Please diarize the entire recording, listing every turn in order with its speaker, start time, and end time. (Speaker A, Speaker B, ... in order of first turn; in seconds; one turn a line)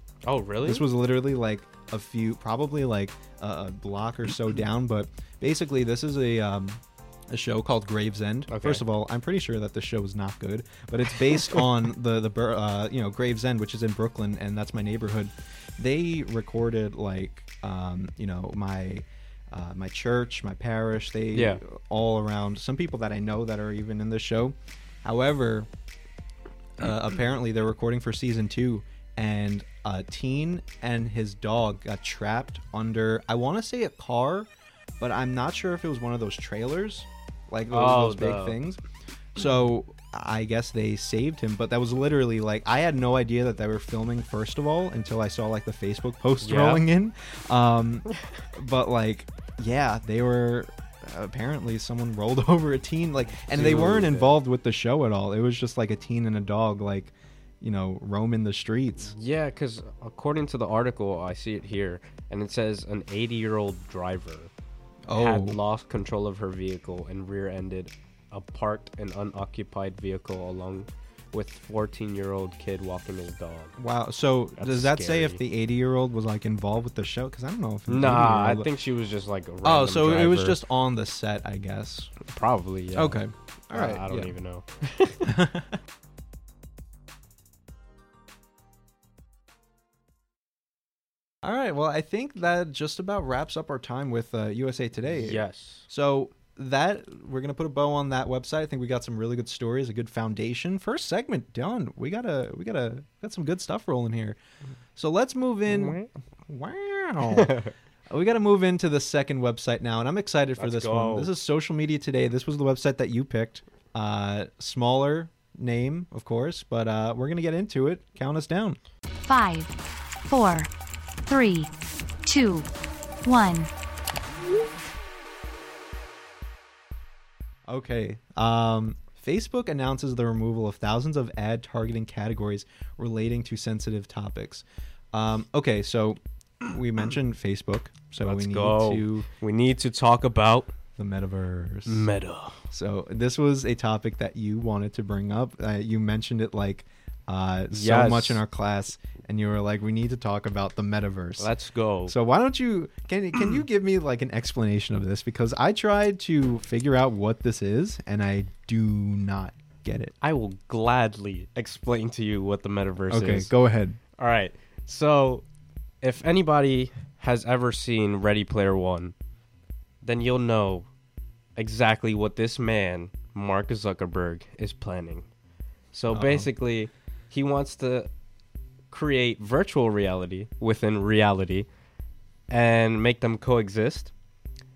Speaker A: 0.2-0.9
Speaker B: 0.6-25.7
Speaker A: 8.5-8.8
Speaker A: 21.3-21.6
Speaker B: 26.8-38.8
Speaker A: 37.7-38.6
Speaker B: 39.3-59.1
Speaker A: 46.4-46.8
Speaker A: 53.5-54.3
Speaker A: 59.0-64.5
Speaker B: 65.1-65.6
Speaker A: 65.1-73.8
Speaker B: 73.8-78.7
Speaker A: 74.6-75.4
Speaker A: 77.9-80.6
Speaker B: 79.6-82.1
Speaker A: 82.2-83.2
Speaker B: 82.9-84.3
Speaker A: 83.7-85.3
Speaker B: 85.2-85.8
Speaker B: 91.4-104.4
Speaker A: 95.1-95.8
Speaker B: 105.0-107.5
Speaker A: 105.7-106.1
Speaker A: 107.3-107.7
Speaker B: 108.1-118.8
Speaker A: 110.6-111.3
Speaker C: 119.2-119.7
Speaker C: 120.2-120.7
Speaker C: 121.3-121.7
Speaker C: 122.2-122.7
Speaker C: 123.2-123.7
Speaker B: 127.7-139.3
Speaker A: 138.2-140.7
Speaker B: 141.0-142.1
Speaker A: 141.8-142.6
Speaker B: 142.7-151.5
Speaker A: 147.7-148.4
Speaker A: 151.4-152.1
Speaker B: 152.1-160.1
Speaker A: 160.2-163.5
Speaker B: 163.1-164.0
Speaker A: 164.2-165.4
Speaker A: 166.0-169.1
Speaker A: 170.0-170.9
Speaker A: 171.6-175.3
Speaker A: 175.9-178.1
Speaker B: 176.1-176.5
Speaker A: 178.9-181.7
Speaker A: 182.5-184.1